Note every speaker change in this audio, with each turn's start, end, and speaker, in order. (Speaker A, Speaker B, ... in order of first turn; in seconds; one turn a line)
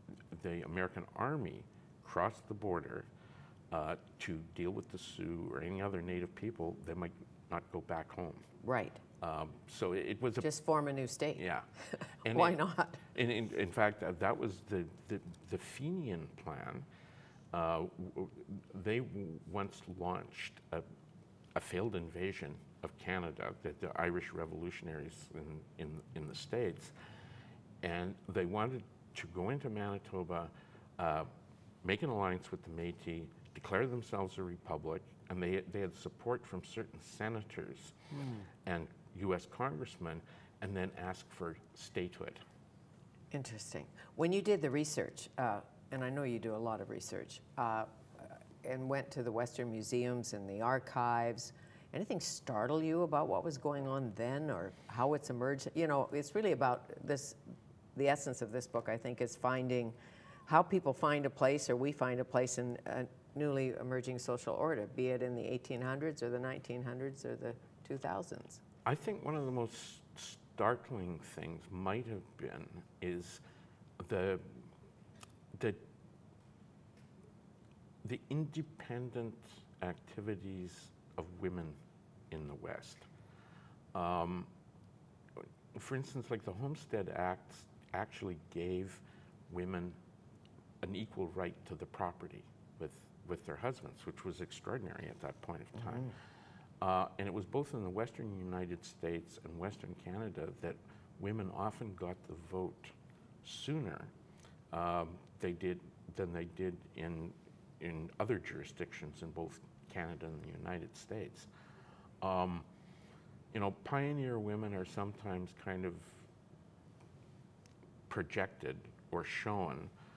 Speaker A: 0.3-3.1
Speaker A: 3.7-8.4
Speaker B: 8.6-9.0
Speaker A: 9.2-10.5
Speaker B: 10.4-13.0
Speaker A: 11.4-11.7
Speaker A: 12.2-12.6
Speaker A: 13.1-16.9
Speaker A: 17.5-20.8
Speaker A: 21.5-26.9
Speaker A: 27.8-31.3
Speaker A: 31.8-37.9
Speaker B: 38.1-38.5
Speaker A: 38.6-42.4
Speaker B: 43.3-57.4
Speaker B: 57.9-60.0
Speaker B: 60.5-68.6
Speaker A: 68.8-73.4
Speaker A: 74.0-74.6
Speaker A: 75.5-75.8
Speaker A: 78.0-81.8
Speaker A: 82.3-83.1
Speaker A: 83.9-84.5
Speaker A: 85.7-90.0
Speaker A: 90.8-96.1
Speaker A: 96.8-104.1
Speaker A: 104.7-111.5
Speaker A: 112.2-112.6
Speaker A: 113.5-116.3
Speaker A: 118.1-119.9